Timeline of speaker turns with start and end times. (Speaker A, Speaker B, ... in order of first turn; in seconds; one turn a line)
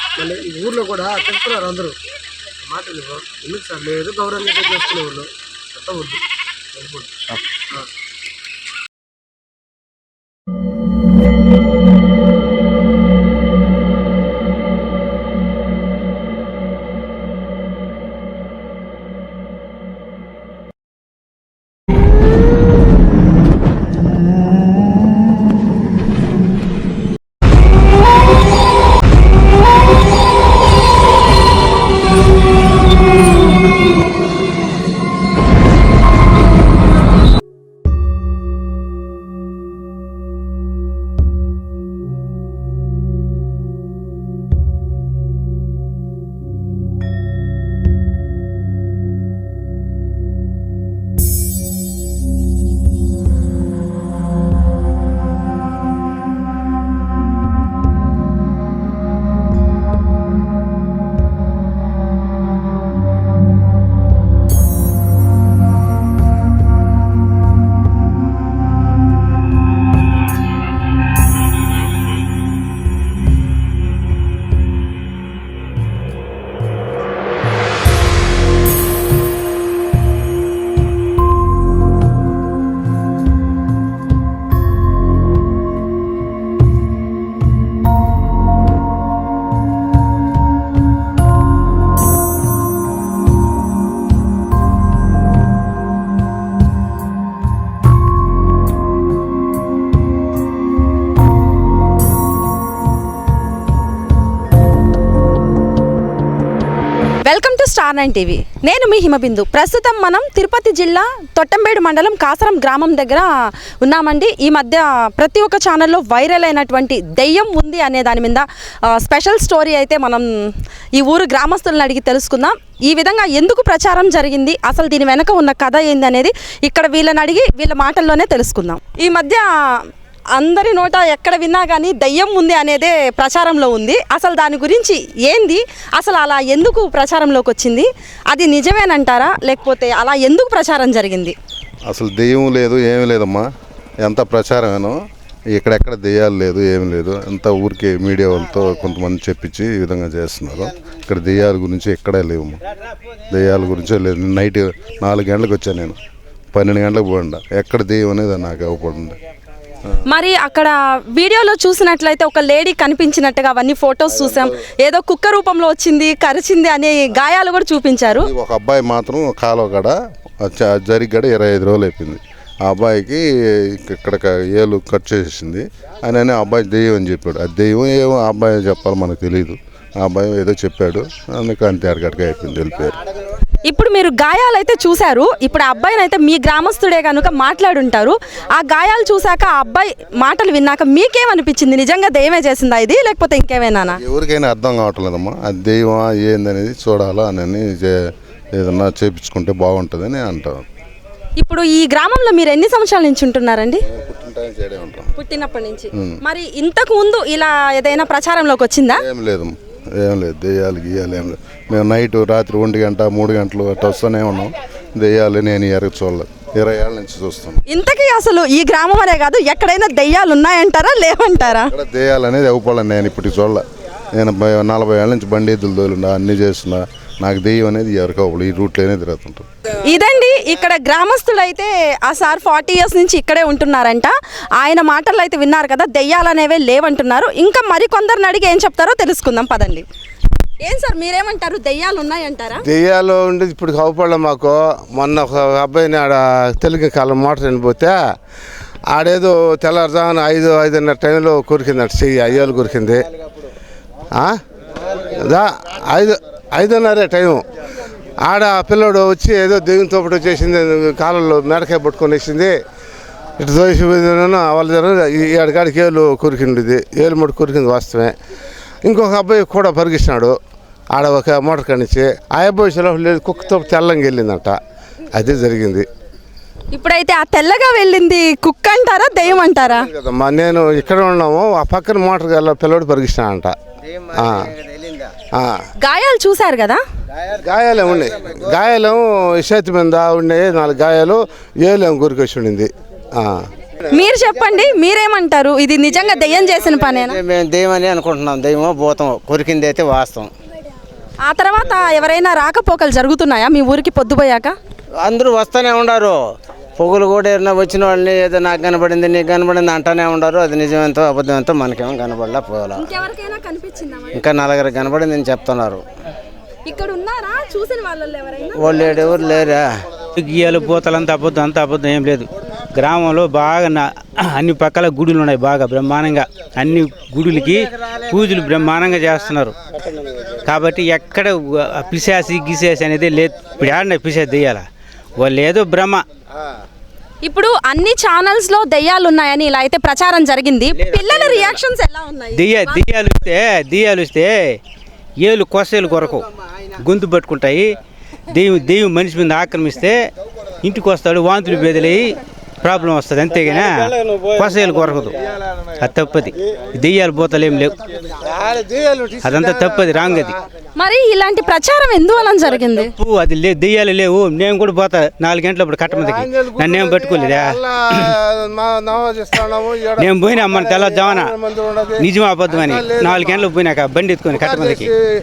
Speaker A: 0.2-2.0
Speaker A: 2.6-7.1
Speaker B: 107.2-129.8
Speaker B: 130.4-141.4
Speaker C: 141.9-143.5
Speaker C: 144.0-145.0
Speaker C: 145.5-152.6
Speaker C: 153.3-156.0
Speaker C: 156.5-159.2
Speaker B: 160.1-168.3
Speaker C: 168.2-183.0
Speaker B: 183.7-194.0
Speaker C: 194.0-198.0
Speaker C: 198.6-200.7
Speaker B: 201.4-203.8
Speaker C: 203.9-205.1
Speaker B: 205.1-209.0
Speaker C: 209.0-217.6
Speaker B: 217.7-221.7
Speaker C: 221.7-223.6
Speaker C: 224.2-229.5
Speaker B: 229.8-239.8
Speaker B: 240.6-242.6
Speaker D: 242.6-248.0
Speaker D: 248.9-253.0
Speaker D: 254.9-257.4
Speaker D: 258.2-262.6
Speaker D: 263.4-268.1
Speaker D: 268.9-270.4
Speaker D: 270.9-274.6
Speaker D: 275.2-275.9
Speaker B: 276.7-279.9
Speaker D: 279.7-283.5
Speaker E: 283.9-285.0
Speaker D: 284.1-284.5
Speaker B: 285.8-286.8
Speaker D: 287.4-293.4
Speaker B: 293.9-297.2
Speaker E: 296.7-300.3
Speaker B: 301.2-304.6
Speaker E: 305.0-306.2
Speaker E: 306.8-312.8
Speaker B: 312.7-314.2
Speaker E: 314.1-315.8
Speaker B: 316.6-319.5
Speaker E: 318.6-319.6
Speaker F: 320.1-329.6
Speaker F: 330.4-334.6
Speaker F: 335.2-336.0
Speaker B: 337.2-342.9
Speaker F: 340.8-341.6
Speaker F: 342.4-344.6
Speaker F: 345.2-347.7
Speaker F: 348.3-350.1
Speaker F: 350.6-355.1
Speaker F: 355.8-357.8
Speaker D: 358.1-360.4
Speaker F: 359.2-360.4
Speaker B: 360.8-362.9
Speaker F: 362.8-368.1
Speaker D: 365.9-373.5
Speaker F: 370.0-371.4
Speaker F: 372.0-374.9
Speaker D: 374.3-375.0